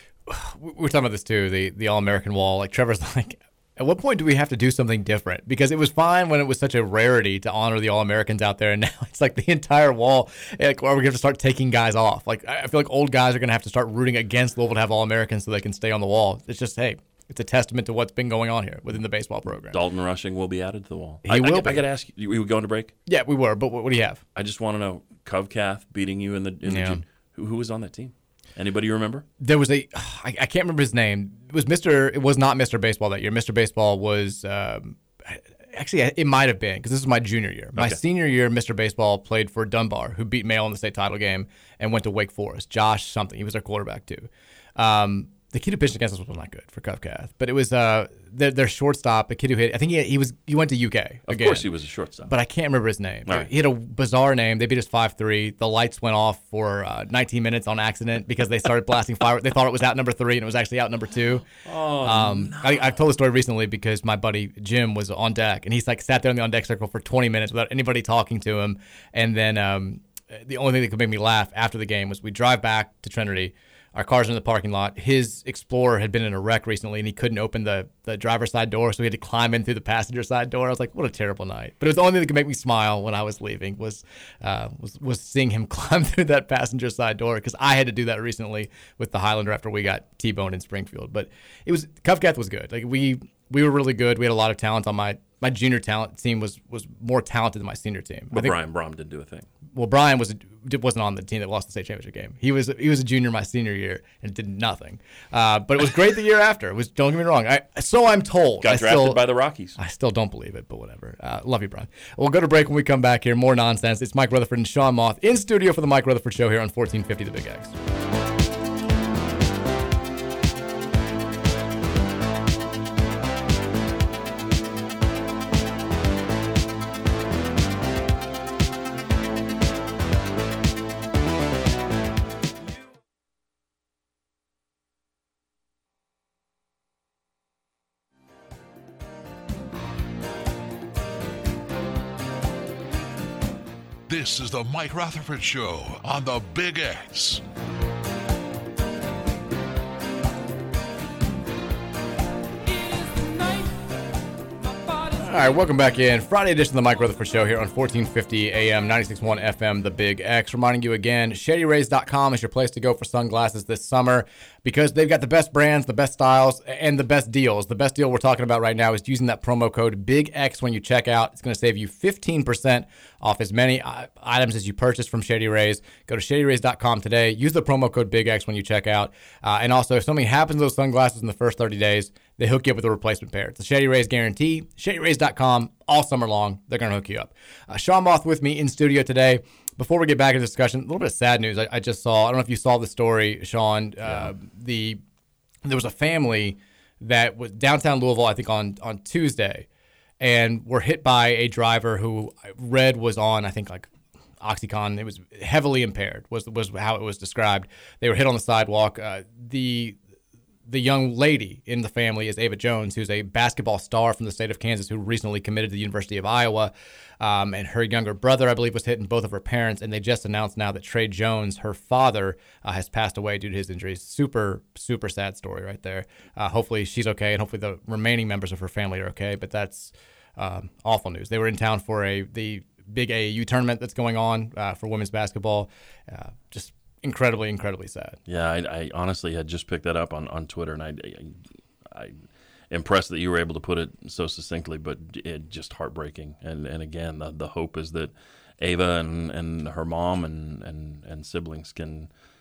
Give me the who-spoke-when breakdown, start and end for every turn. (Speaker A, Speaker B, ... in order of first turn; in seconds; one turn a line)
Speaker A: 0.3-19.8
Speaker B: 19.7-22.9
Speaker A: 21.2-21.8
Speaker A: 23.1-24.2
Speaker B: 24.4-29.3
Speaker A: 26.7-27.0
Speaker A: 29.4-51.7
Speaker B: 51.3-52.3
Speaker A: 52.3-61.5
Speaker B: 61.6-63.0
Speaker A: 62.0-98.6
Speaker B: 98.3-99.5
Speaker A: 99.7-109.2
Speaker B: 108.6-109.8
Speaker A: 109.8-117.8
Speaker C: 144.1-147.4
Speaker A: 155.2-195.0
Speaker B: 194.1-194.3
Speaker A: 195.7-199.7
Speaker A: 200.2-203.9
Speaker A: 204.4-210.0
Speaker A: 210.7-238.2
Speaker B: 238.3-252.1